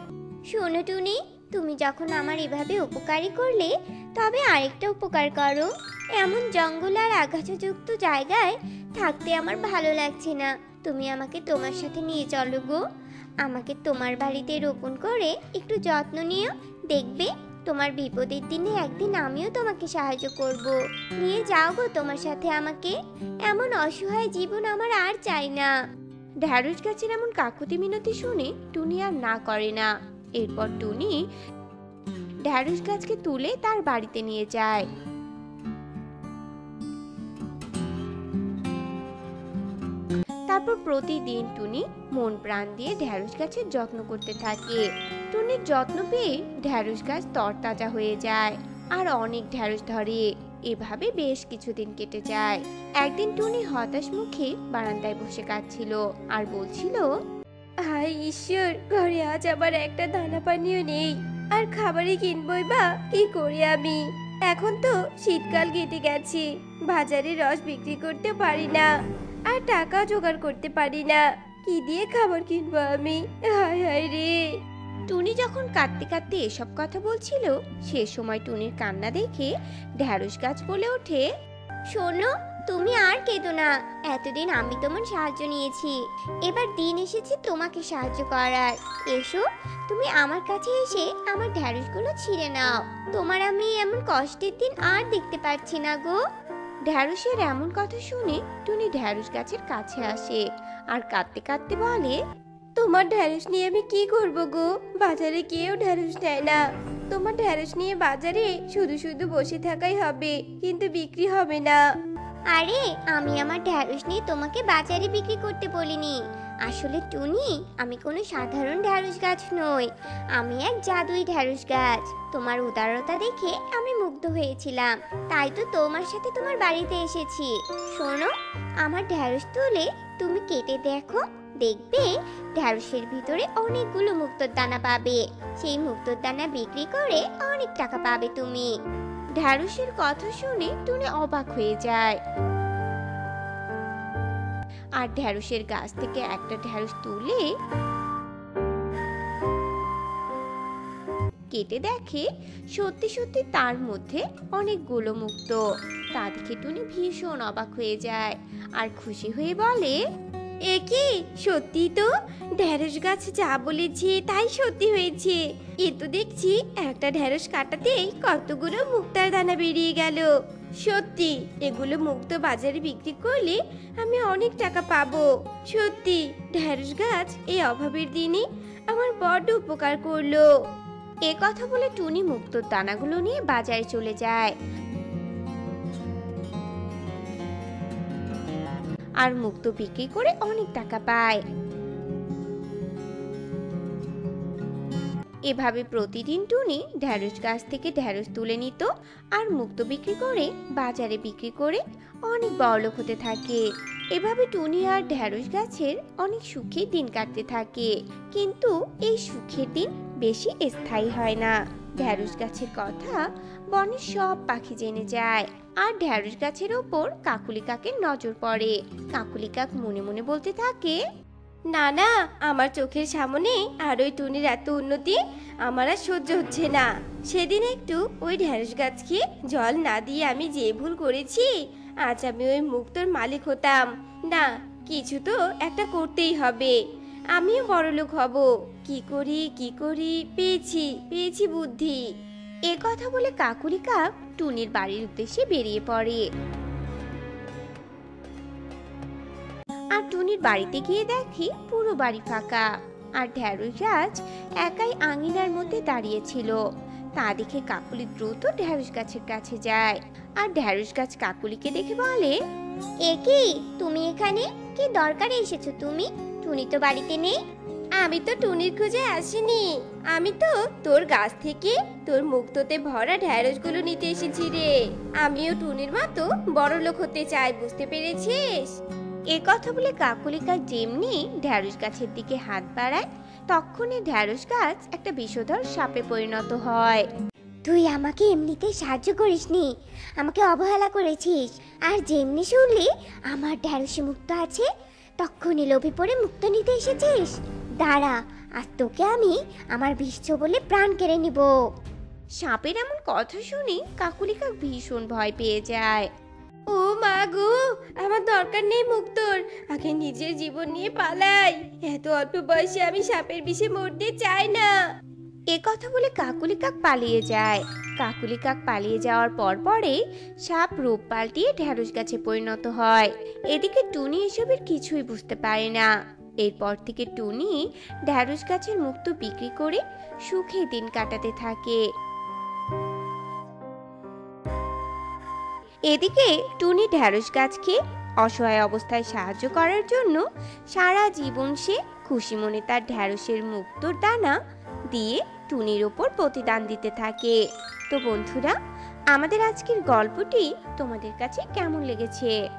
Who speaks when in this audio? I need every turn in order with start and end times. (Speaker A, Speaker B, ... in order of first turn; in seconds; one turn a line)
Speaker A: 0.5-12.8
Speaker A: 13.4-22.9
Speaker A: 23.5-25.7
Speaker B: 26.4-31.2
Speaker B: 32.5-34.9
Speaker B: 40.5-57.1
Speaker C: 57.9-68.9
Speaker C: 69.5-74.5
Speaker B: 75.1-81.3
Speaker A: 81.9-96.2
Speaker B: 96.9-102.2
Speaker C: 102.8-111.8
Speaker A: 112.5-128.3
Speaker A: 128.8-138.7
Speaker B: 139.4-142.2
Speaker B: 145.0-147.4
Speaker B: 151.5-155.6
Speaker B: 156.2-160.0
Speaker C: 160.7-180.5
Speaker B: 181.2-184.5
Speaker B: 189.2-191.4
Speaker B: 195.5-203.6
Speaker B: 204.1-213.2
Speaker B: 213.7-221.0
Speaker C: 221.7-231.5
Speaker C: 232.0-236.8
Speaker C: 237.3-242.0
Speaker B: 242.7-246.2
Speaker B: 249.9-252.7
Speaker B: 253.2-256.6
Speaker B: 257.2-262.4
Speaker A: 263.1-267.4
Speaker C: 268.0-278.7
Speaker B: 279.3-287.1
Speaker A: 287.7-294.7
Speaker A: 295.2-301.5
Speaker B: 302.4-306.1
Speaker C: 306.7-314.7
Speaker B: 315.5-325.9
Speaker B: 326.4-331.8
Speaker B: 335.9-344.4
Speaker B: 344.9-347.4
Speaker B: 347.9-348.6
Speaker B: 349.1-352.3